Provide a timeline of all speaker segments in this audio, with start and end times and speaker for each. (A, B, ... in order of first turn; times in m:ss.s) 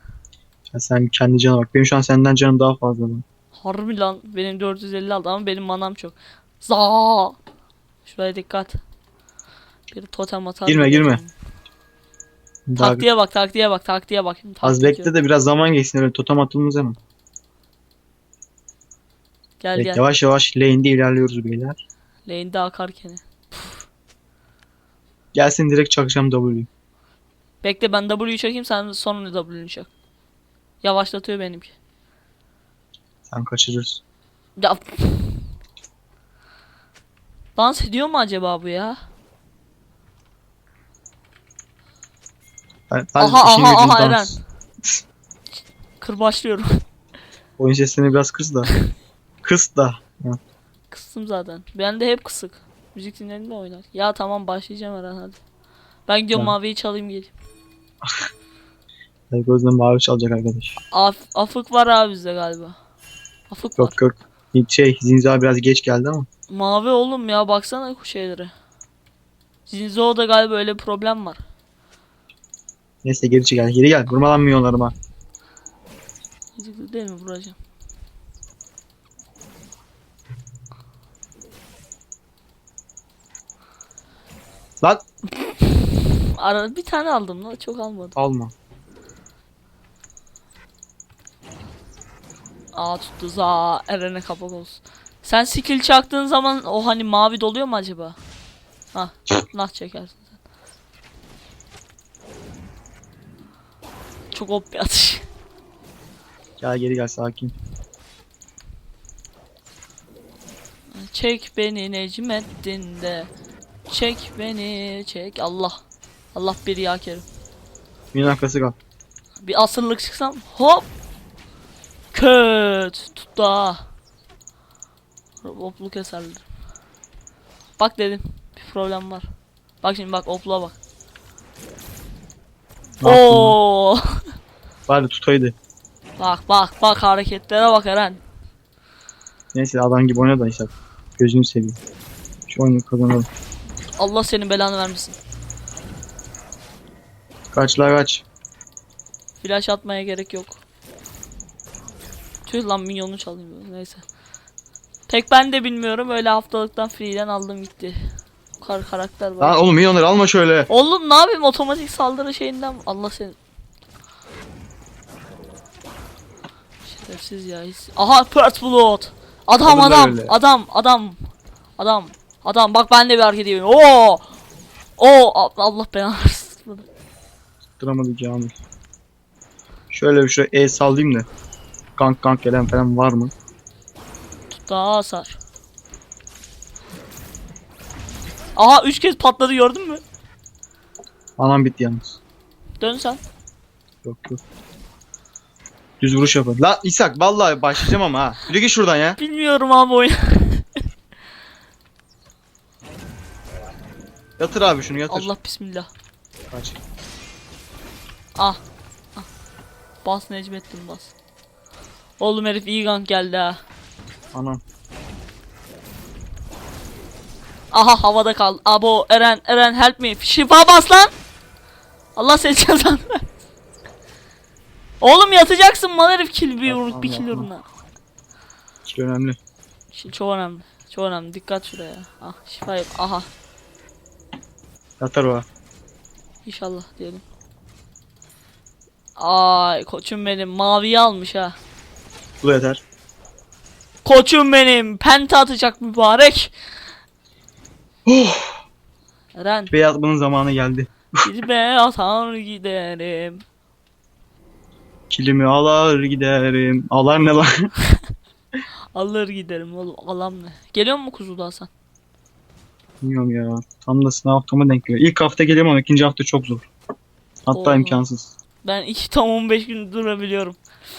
0:00.7-0:03.2 A
0:03.6-0:07.4 B
0:08.0-0:08.8 B
0:09.9-0:11.3 B
0:10.7-0:11.2 A
0:12.7-0:13.0 A
0:12.8-0:15.1 B
0:14.6-0:17.0 A
0:19.6-0:20.0 B
0:19.8-0:21.8 A
0:22.3-0:23.7 B
0:25.3-0:26.7 A
0:27.6-0:29.9 B
0:30.8-0:31.7 B
0:33.3-0:34.0 A
0:34.6-0:35.4 B
0:37.6-0:39.0 B
0:42.9-0:45.0 A
0:43.2-0:44.4 B
0:46.0-0:46.8 B
0:47.6-0:48.7 A
0:49.4-0:50.4 A
0:50.9-0:55.4 B
0:56.1-0:57.3 B
0:58.0-0:58.3 A
0:59.3-1:00.8 A
1:00.8-1:02.8 B
1:03.5-1:04.0 B
1:03.8-1:06.3 A
1:06.5-1:08.5 B
1:09.7-1:11.4 B
1:13.0-1:14.9 A
1:16.6-1:17.6 B
1:25.6-1:28.2 B
1:28.2-1:28.5 A
1:32.7-1:38.2 B
1:38.9-1:40.4 B
1:44.3-1:45.2 B
1:46.6-1:47.5 A
1:50.9-1:53.3 B
1:53.9-1:55.8 B
1:56.4-1:57.2 B
1:58.1-1:58.8 A
1:59.4-2:00.9 B
2:02.1-2:03.9 B
2:05.4-2:06.4 B
2:07.8-2:09.3 B
2:09.8-2:10.8 B
2:13.0-2:13.6 A
2:13.0-2:14.2 B
2:14.9-2:15.6 A
2:16.2-2:18.2 B
2:19.5-2:21.8 A
2:22.5-2:23.3 A
2:24.0-2:25.2 B
2:27.5-2:28.2 A
2:29.4-2:30.6 B
2:32.5-2:34.0 B
2:35.1-2:38.0 B
2:38.6-2:39.6 B
2:39.4-2:40.7 A
2:40.7-2:43.4 B
2:46.9-2:51.2 B
2:49.6-2:50.3 A
2:51.8-2:54.3 B
2:55.0-2:56.9 B
2:57.8-2:58.6 A
2:59.9-3:01.3 A
3:02.0-3:03.3 A
3:04.5-3:05.4 B
3:08.6-3:10.0 B
3:11.4-3:12.2 A
3:12.8-3:13.2 B
3:14.0-3:14.4 A
3:16.0-3:19.2 A
3:19.2-3:20.7 B
3:24.4-3:25.3 A
3:25.1-3:25.9 B
3:26.5-3:26.8 A
3:28.4-3:28.6 B
3:30.0-3:31.1 B
3:32.2-3:33.6 B
3:34.3-3:34.6 A
3:37.7-3:41.1 B
3:42.2-3:43.2 B
3:45.0-3:47.6 B
3:46.7-3:47.5 A
3:48.8-3:49.4 A
3:49.9-3:53.3 B
3:55.0-3:55.5 A
3:56.4-3:57.2 B
3:59.2-4:01.6 B
4:02.4-4:02.8 A
4:04.0-4:06.5 B
4:08.1-4:08.6 A
4:09.4-4:09.7 B
4:09.7-4:11.2 A
4:11.2-4:13.4 B
4:15.1-4:17.7 A
4:19.0-4:21.7 B
4:23.0-4:26.7 A
4:27.5-4:28.3 A
4:27.5-4:28.0 B
4:28.6-4:30.6 B